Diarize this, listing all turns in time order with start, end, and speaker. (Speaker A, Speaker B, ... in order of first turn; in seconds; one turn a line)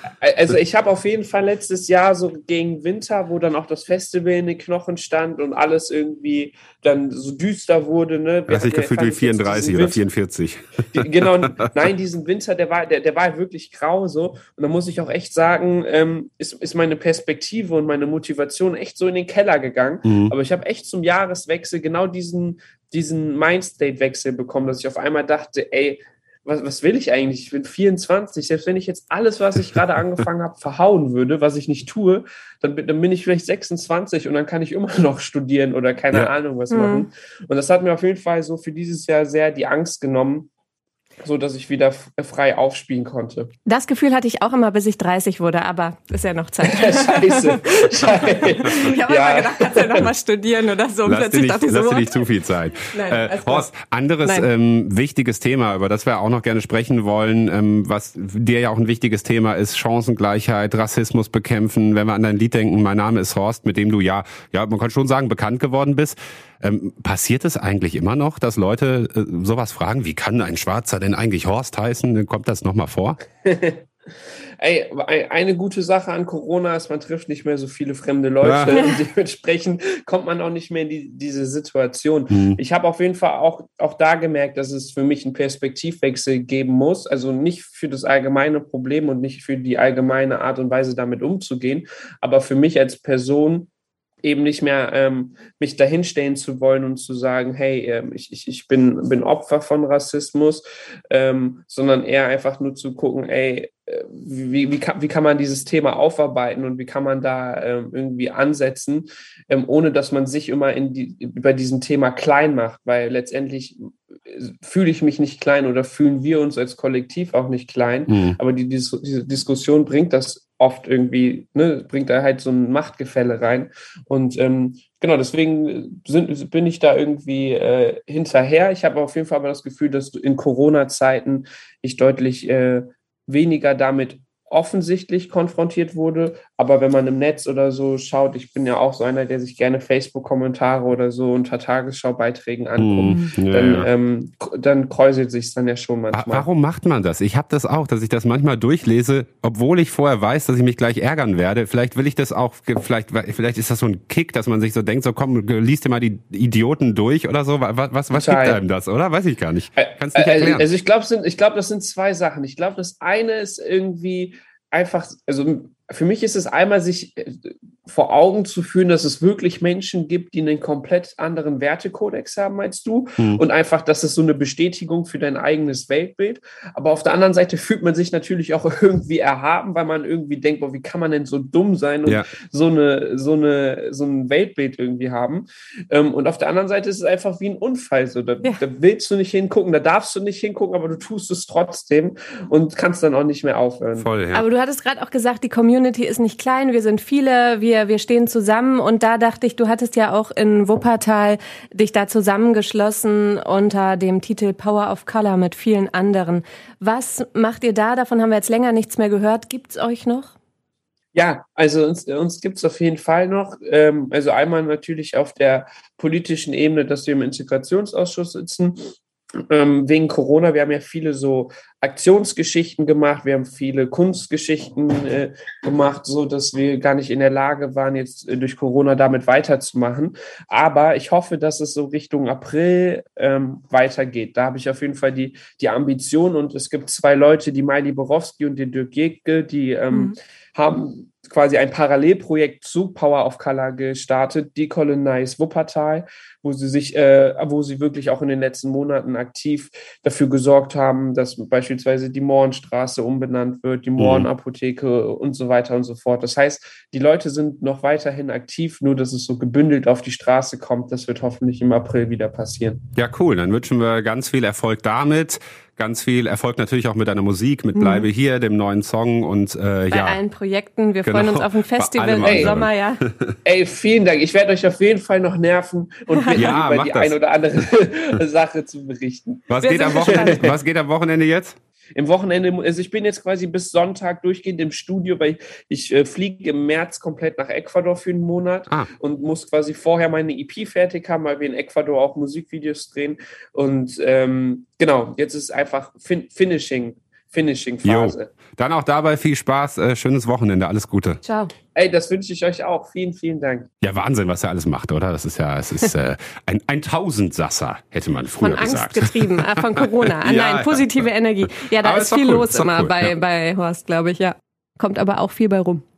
Speaker A: 0.2-10.0
Speaker B: 8.5-11.7
Speaker A: 10.9-40.5
Speaker B: 20.0-20.3
Speaker C: 36.7-37.1
Speaker A: 41.2-43.5
Speaker C: 43.7-53.7
Speaker A: 46.6-50.1
Speaker B: 51.0-73.2
Speaker A: 73.4-73.8
Speaker A: 74.6-93.7
Speaker B: 78.4-78.8
Speaker B: 82.3-82.6
Speaker A: 94.2-146.4
Speaker B: 118.1-118.4
Speaker B: 142.8-143.9
Speaker B: 146.1-160.7
Speaker A: 158.1-158.6
Speaker A: 159.8-194.1
Speaker B: 182.1-182.3
Speaker B: 194.0-194.4
Speaker C: 194.3-210.3
Speaker A: 211.1-218.9
Speaker A: 219.5-262.9
Speaker B: 254.0-254.3
Speaker B: 262.9-270.2
Speaker C: 267.8-268.1
Speaker C: 269.9-273.0
Speaker B: 271.0-273.4
Speaker A: 272.2-272.6
Speaker A: 273.4-280.5
Speaker C: 276.2-276.4
Speaker B: 276.3-277.1
Speaker B: 279.5-281.6
Speaker C: 279.6-280.4
Speaker A: 281.9-298.3
Speaker B: 297.8-301.2
Speaker C: 301.2-301.5
Speaker A: 301.7-303.7
Speaker B: 303.8-313.1
Speaker C: 308.4-315.8